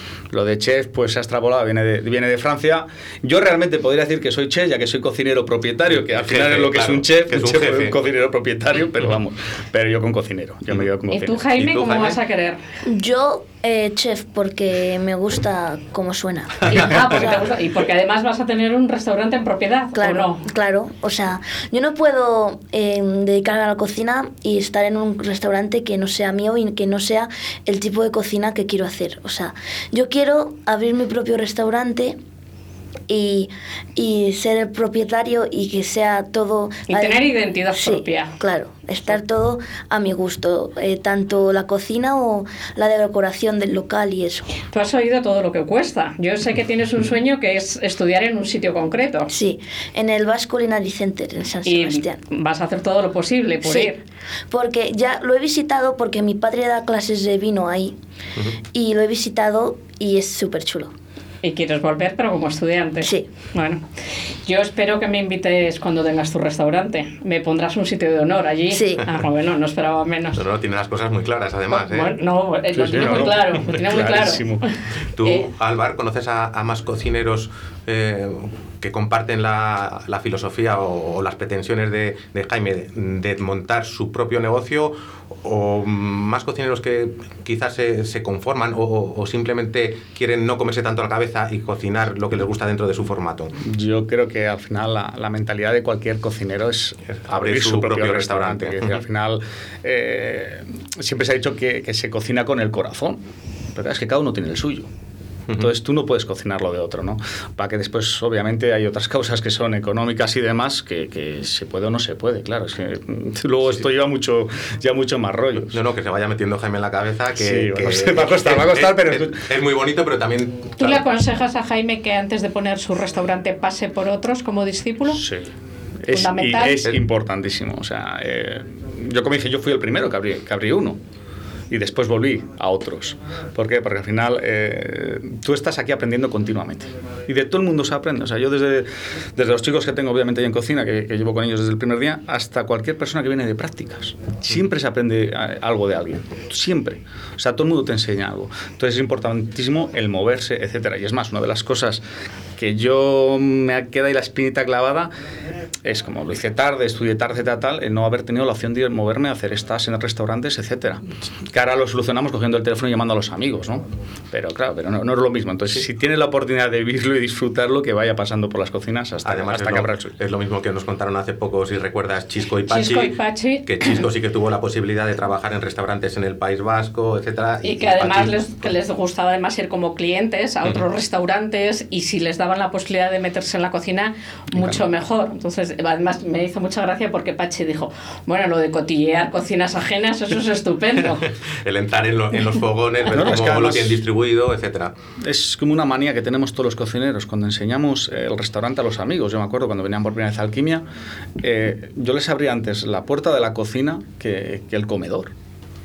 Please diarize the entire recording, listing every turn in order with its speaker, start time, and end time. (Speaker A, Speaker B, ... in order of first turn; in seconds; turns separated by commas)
Speaker A: 0.3-11.4, Speaker B: 5.9-8.0, Speaker C: 11.1-12.6, Speaker B: 11.6-12.2, Speaker D: 12.8-17.4, Speaker C: 16.7-20.4, Speaker D: 19.9-32.2, Speaker D: 33.1-37.2, Speaker C: 36.9-38.3, Speaker D: 37.7-44.5, Speaker C: 44.7-49.3, Speaker D: 49.3-52.2, Speaker C: 51.6-54.0, Speaker D: 53.6-54.0, Speaker D: 54.5-57.9, Speaker D: 58.7-60.9, Speaker C: 61.4-63.8, Speaker D: 63.0-63.3, Speaker C: 64.4-70.4, Speaker D: 68.7-69.0, Speaker B: 70.3-72.2, Speaker C: 71.7-74.6, Speaker A: 72.7-74.7, Speaker B: 75.1-93.5, Speaker C: 75.2-75.5, Speaker A: 93.6-103.2, Speaker B: 97.1-99.0, Speaker A: 103.7-104.9, Speaker A: 105.5-115.8, Speaker B: 115.7-121.0, Speaker A: 117.3-119.5, Speaker C: 120.8-125.2, Speaker A: 125.1-125.5, Speaker A: 126.0-131.0, Speaker C: 126.1-126.8, Speaker A: 131.7-152.0, Speaker A: 152.6-155.1, Speaker A: 155.8-170.1, Speaker B: 169.2-178.7, Speaker C: 172.7-173.9, Speaker C: 177.6-191.3, Speaker A: 184.5-184.8, Speaker B: 191.5-194.9, Speaker A: 193.1-194.0, Speaker A: 195.2-200.8, Speaker A: 201.4-205.3